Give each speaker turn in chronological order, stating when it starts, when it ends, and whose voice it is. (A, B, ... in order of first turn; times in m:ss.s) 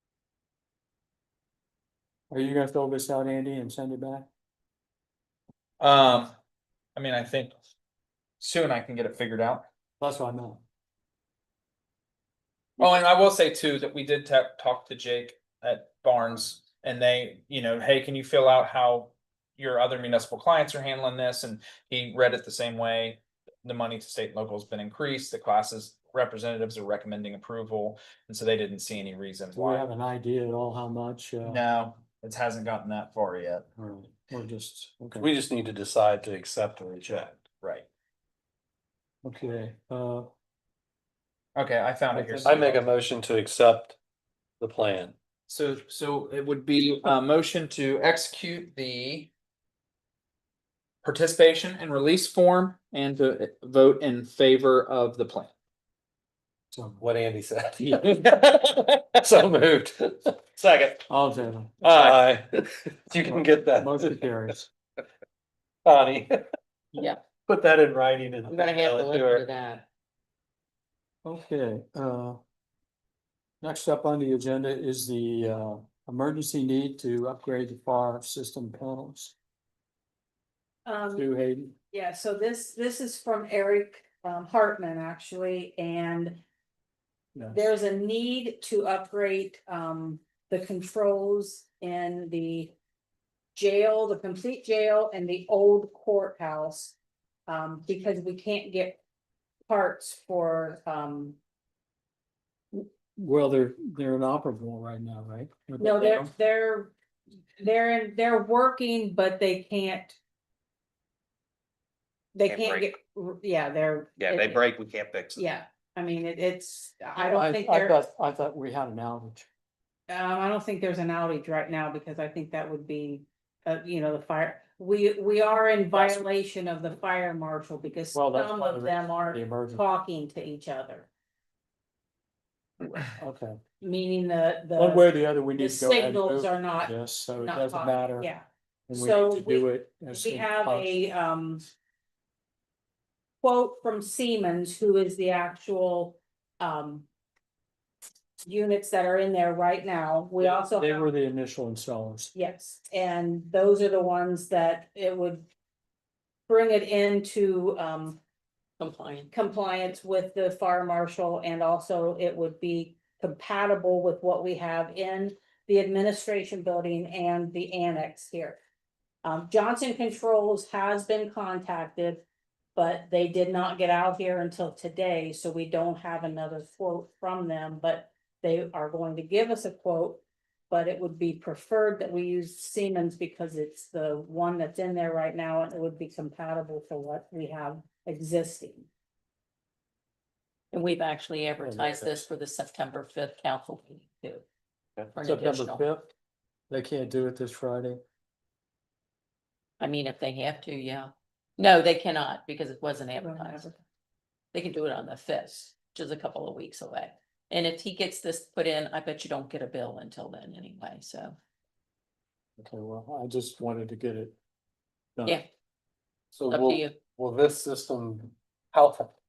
0:02.3-0:04.3 A
0:05.8-0:06.3 B
0:07.0-0:07.5 B
0:08.4-0:09.6 B
0:10.0-0:10.6 A
0:12.8-0:29.8 B
0:29.5-0:31.6 A
0:31.4-0:33.6 B
0:33.8-0:35.3 A
0:35.2-0:37.4 C
0:39.2-0:40.3 A
0:41.5-0:42.8 B
0:42.1-0:42.8 A
0:42.4-0:44.0 C
0:44.6-0:45.1 C
0:45.5-0:49.3 B
0:51.0-0:55.5 B
0:56.7-0:57.0 A
0:57.0-0:58.3 C
0:58.4-0:59.2 D
0:59.2-1:00.4 C
1:00.6-1:01.0 D
1:01.1-1:01.8 A
1:01.8-1:04.3 C
1:01.8-1:02.2 D
1:03.3-1:04.7 A
1:05.8-1:06.4 C
1:06.9-1:07.2 E
1:07.5-1:09.4 C
1:08.5-1:09.8 E
1:11.2-1:12.4 A
1:13.6-1:19.3 A
1:20.8-1:21.3 F
1:21.1-1:21.7 A
1:21.9-1:26.4 F
1:27.3-1:27.7 A
1:27.5-1:32.7 F
1:33.5-1:37.0 F
1:37.5-1:39.0 F
1:39.7-1:41.4 F
1:42.7-1:46.3 A
1:45.8-1:46.9 F
1:47.6-1:50.2 F
1:52.3-1:54.6 F
1:52.4-1:52.9 D
1:54.2-1:55.4 D
1:55.4-1:58.0 F
1:57.2-1:59.5 A
2:00.1-2:11.1 F
2:08.1-2:09.8 A
2:13.0-2:13.6 A
2:13.8-2:21.6 F
2:14.7-2:18.3 A
2:18.9-2:21.0 A
2:23.4-2:27.0 F
2:28.4-2:31.1 F
2:30.4-2:32.3 A
2:32.3-2:35.5 F
2:36.5-2:38.2 F
2:38.8-2:39.3 E
2:39.3-2:48.6 F
2:49.2-2:52.2 F
2:52.8-3:08.9 F
3:10.7-3:14.4 E
3:11.6-3:12.3 A
3:15.1-3:15.8 E
3:15.2-3:16.1 A
3:16.7-3:18.0 A
3:19.8-3:23.7 E
3:23.2-3:23.8 F
3:24.5-3:31.4 E
3:32.6-3:34.3 A
3:36.3-3:39.1 C
3:36.5-3:37.0 E